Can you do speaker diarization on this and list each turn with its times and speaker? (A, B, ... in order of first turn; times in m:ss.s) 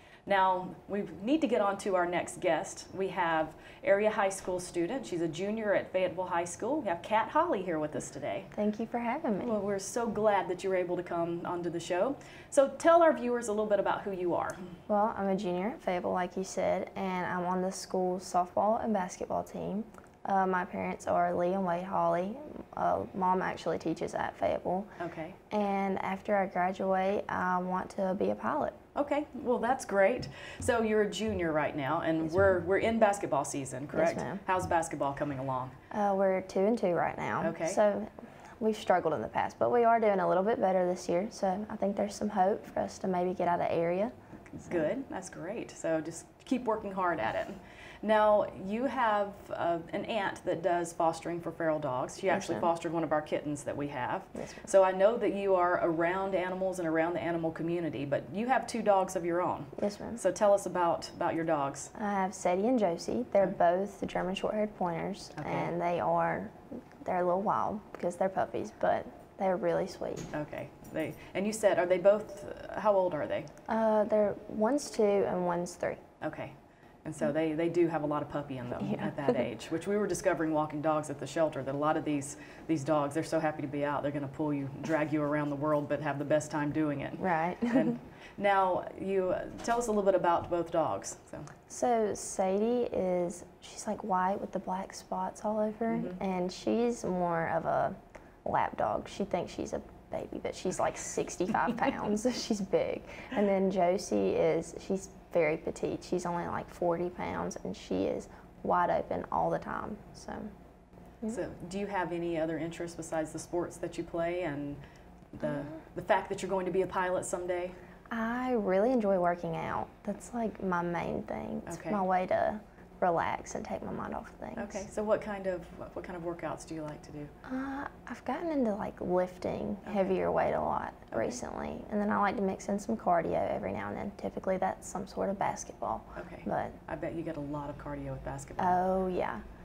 0:00.2-0:08.5 A
0:08.5-0:09.6 B
0:09.4-0:14.6 A
0:14.9-0:24.9 B
0:25.0-0:25.4 A
0:25.5-0:28.8 B
0:28.9-0:35.7 A
0:32.3-0:32.6 B
0:33.9-0:34.4 B
0:35.9-0:38.1 B
0:37.4-0:37.8 A
0:38.6-0:44.1 B
0:44.5-1:01.9 A
0:52.3-0:52.6 B
0:54.4-0:54.6 B
0:59.8-1:00.2 B
1:01.9-1:10.3 B
1:05.4-1:05.7 A
1:10.3-1:13.5 A
1:13.7-1:16.0 B
1:16.2-1:31.5 A
1:18.8-1:19.3 B
1:27.2-1:28.0 B
1:31.7-1:50.5 B
1:35.9-1:36.2 A
1:51.3-1:54.8 A
1:55.3-1:57.8 A
1:58.1-2:04.8 B
2:01.7-2:02.0 A
2:04.6-2:07.3 A
2:07.4-2:16.8 B
2:09.8-2:10.1 A
2:11.1-2:11.4 A
2:16.2-2:18.8 A
2:18.6-2:19.4 B